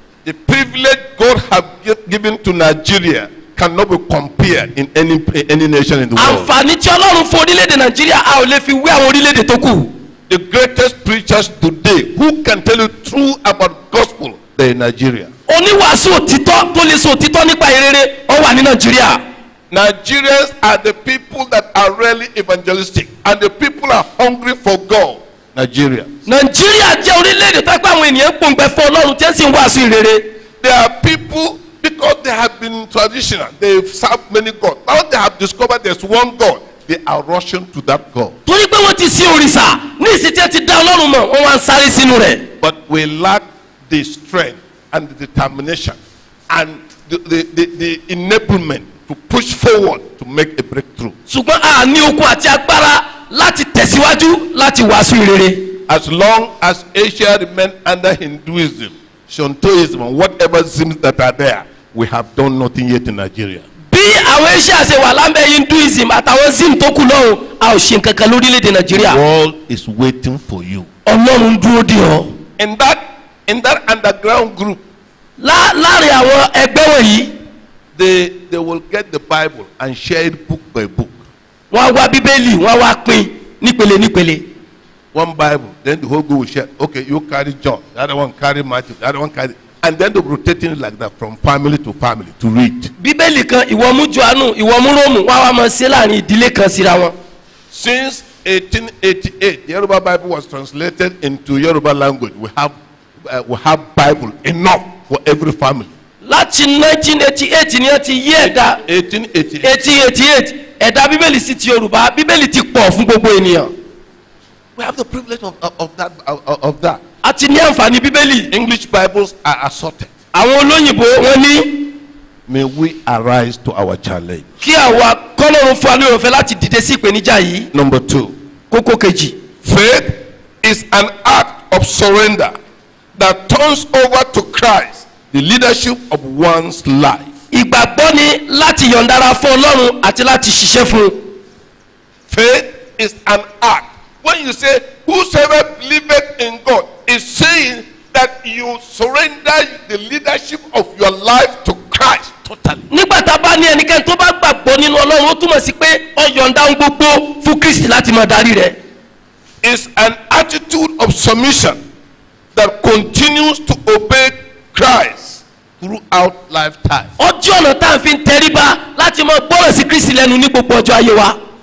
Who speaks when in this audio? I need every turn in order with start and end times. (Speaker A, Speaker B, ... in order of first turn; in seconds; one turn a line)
Speaker A: 0.2-6.5
Speaker B: 6.2-9.9
Speaker A: 10.3-15.3
Speaker B: 15.5-19.2
Speaker A: 19.7-26.1
Speaker B: 26.3-30.3
Speaker A: 30.6-38.4
Speaker B: 38.5-42.5
Speaker A: 42.6-46.0
Speaker A: 46.5-51.2
Speaker B: 51.3-55.7
Speaker A: 55.9-63.7
Speaker B: 63.9-69.2
Speaker A: 68.9-70.9
Speaker B: 71.1-72.4
Speaker A: 72.6-74.8
Speaker B: 75.4-77.3
Speaker A: 78.0-81.2
Speaker B: 81.7-84.5
Speaker A: 85.1-92.9
Speaker B: 93.0-97.2
Speaker A: 97.7-105.9
Speaker B: 106.2-108.8
Speaker A: 108.4-109.8
Speaker B: 109.6-113.7
Speaker A: 114.8-117.0
Speaker B: 117.2-118.5
Speaker A: 118.5-120.1
Speaker B: 120.3-121.9
Speaker A: 122.5-124.5
Speaker B: 124.6-127.7
Speaker A: 127.7-128.4
Speaker B: 128.7-129.4
Speaker A: 129.6-132.6
Speaker A: 133.2-137.3
Speaker B: 137.5-141.2
Speaker A: 142.3-152.8
Speaker B: 152.9-158.8
Speaker A: 159.6-161.8
Speaker A: 162.6-167.1
Speaker B: 167.2-171.4